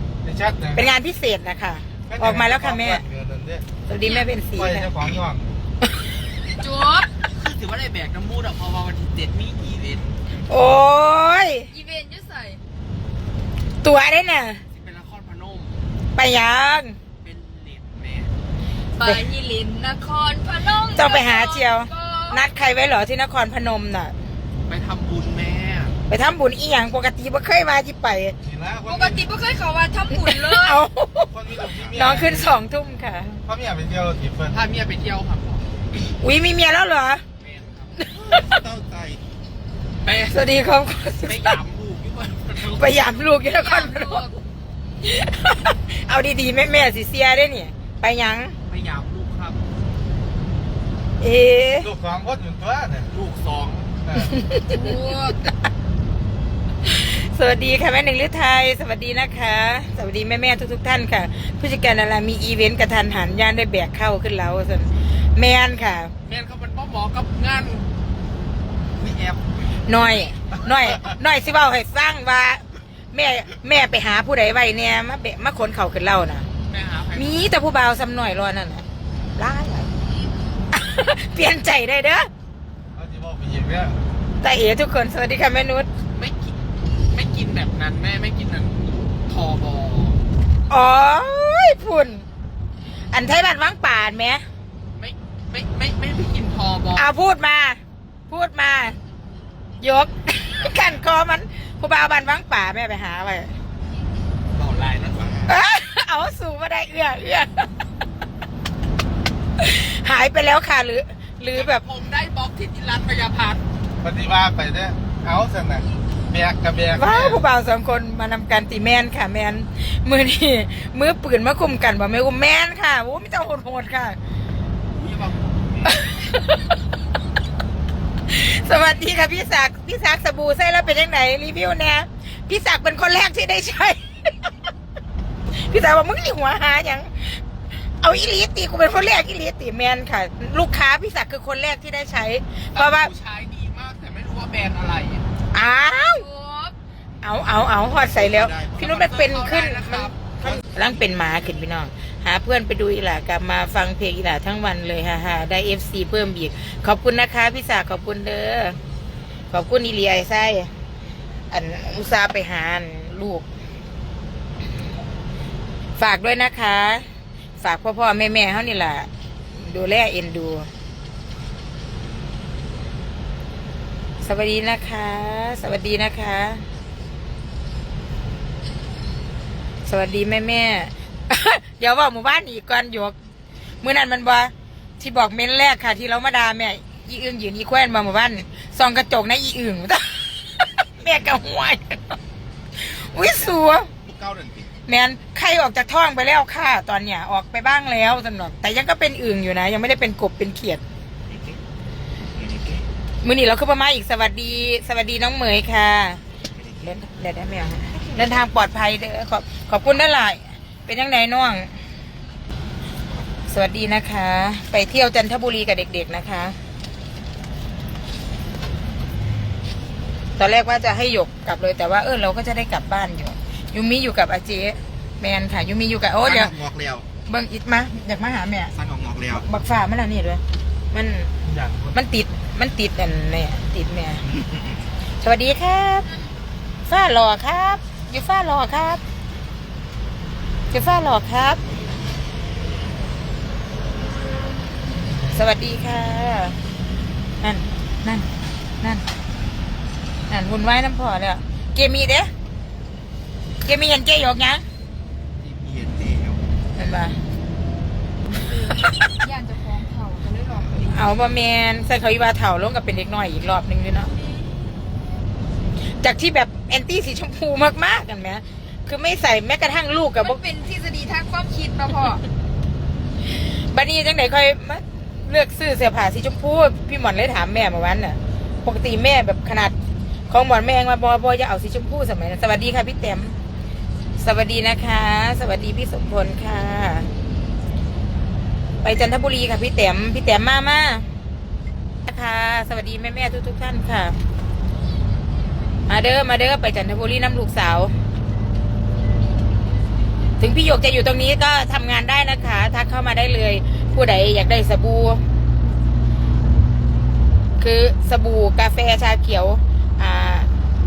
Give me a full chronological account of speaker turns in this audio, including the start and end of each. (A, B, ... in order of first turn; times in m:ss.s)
0:00.2-0:00.8 A
0:00.7-0:03.0 B
0:02.1-0:03.6 A
0:03.9-0:04.9 B
0:03.9-0:04.3 C
0:04.6-0:05.5 A
0:06.5-0:07.1 C
0:07.2-0:10.1 D
0:10.5-0:11.7 B
0:11.7-0:12.6 C
0:13.8-0:14.6 B
0:14.7-0:15.8 D
0:16.1-0:17.0 B
0:17.2-0:18.3 D
0:19.0-0:22.4 C
0:20.9-0:24.1 B
0:24.5-0:26.0 D
0:26.1-0:28.4 B
0:28.4-0:29.2 A
0:28.8-0:30.8 C
0:30.2-0:31.3 B
0:31.3-0:32.5 A
0:31.7-0:32.1 E
0:31.9-0:33.4 B
0:33.5-0:34.6 A
0:34.5-0:35.6 D
0:36.2-0:37.2 B
0:37.4-0:38.0 D
0:38.0-0:38.6 B
0:38.2-0:39.3 E
0:40.0-0:40.5 D
0:40.3-0:41.6 B
0:41.2-0:43.3 D
0:42.6-0:44.2 B
0:43.5-0:44.4 C
0:45.0-0:48.6 B
0:48.7-0:49.6 D
0:51.2-0:51.9 B
0:51.8-0:53.1 A
0:53.1-0:54.0 D
0:54.0-0:54.3 A
0:54.2-0:54.8 B
0:54.7-0:55.4 C
0:56.8-1:06.1 B
1:06.3-1:07.9 D
1:09.0-1:10.0 D
1:09.8-1:16.5 B
1:16.7-1:17.5 D
1:17.1-1:18.8 B
1:19.4-1:19.9 B
1:20.7-1:22.3 B
1:23.0-1:24.0 A
1:24.4-1:25.9 B
1:26.1-1:26.5 D
1:27.1-1:30.2 D
1:30.7-1:32.2 B
1:33.1-1:34.4 B
1:35.0-1:37.1 D
1:36.9-1:37.8 B
1:38.3-1:39.0 B
1:39.8-1:43.5 B
1:44.5-1:45.3 D
1:45.0-1:45.6 E
1:45.5-1:47.7 B
1:49.6-1:51.8 B
1:51.5-1:53.6 D
1:54.0-1:57.4 A
1:56.9-2:04.2 B
2:04.9-2:06.1 D
2:05.8-2:06.6 B
2:08.3-2:14.5 B
2:15.5-2:23.1 B
2:22.7-2:25.2 D
2:25.5-2:26.2 B
2:26.0-2:26.7 C
2:27.2-2:38.8 B
2:27.8-2:28.9 E
2:28.7-2:30.3 D
2:30.4-2:31.1 E
2:39.5-2:40.7 B
2:41.5-2:43.4 B
2:46.0-2:47.0 B
2:47.6-2:50.7 B
2:54.2-2:56.6 B
2:59.8-3:03.1 B
3:03.8-3:12.2 B
3:12.8-3:13.9 B
3:14.0-3:14.7 E
3:14.9-3:20.8 B
3:21.3-3:21.6 E
3:22.4-3:22.8 E
3:23.2-3:26.2 B
3:26.5-3:26.8 E
3:26.8-3:31.7 B
3:33.5-3:36.6 B
3:40.4-3:46.5 B
3:46.2-3:47.1 E
3:47.3-3:48.7 B
3:48.7-3:49.4 E
3:49.3-3:51.3 B
3:51.4-3:51.9 A
3:51.9-3:54.2 B
3:55.2-3:56.1 B
3:56.0-3:56.3 C
3:56.9-3:59.0 B
4:00.7-4:01.6 B
4:05.3-4:06.6 B
4:07.4-4:08.3 B
4:10.3-4:12.3 B
4:13.6-4:14.6 B
4:15.3-4:16.5 E
4:16.8-4:17.2 B
4:18.3-4:21.1 C
4:18.8-4:19.1 B
4:20.9-4:24.1 B
4:24.0-4:24.6 C
4:26.0-4:30.4 B
4:30.2-4:32.2 C
4:33.2-4:39.7 B
4:40.3-4:43.4 B
4:44.2-4:47.1 B
4:48.8-4:51.0 B
4:52.0-4:54.2 B
4:55.9-4:57.9 B
5:00.4-5:05.2 B
5:07.6-5:10.5 B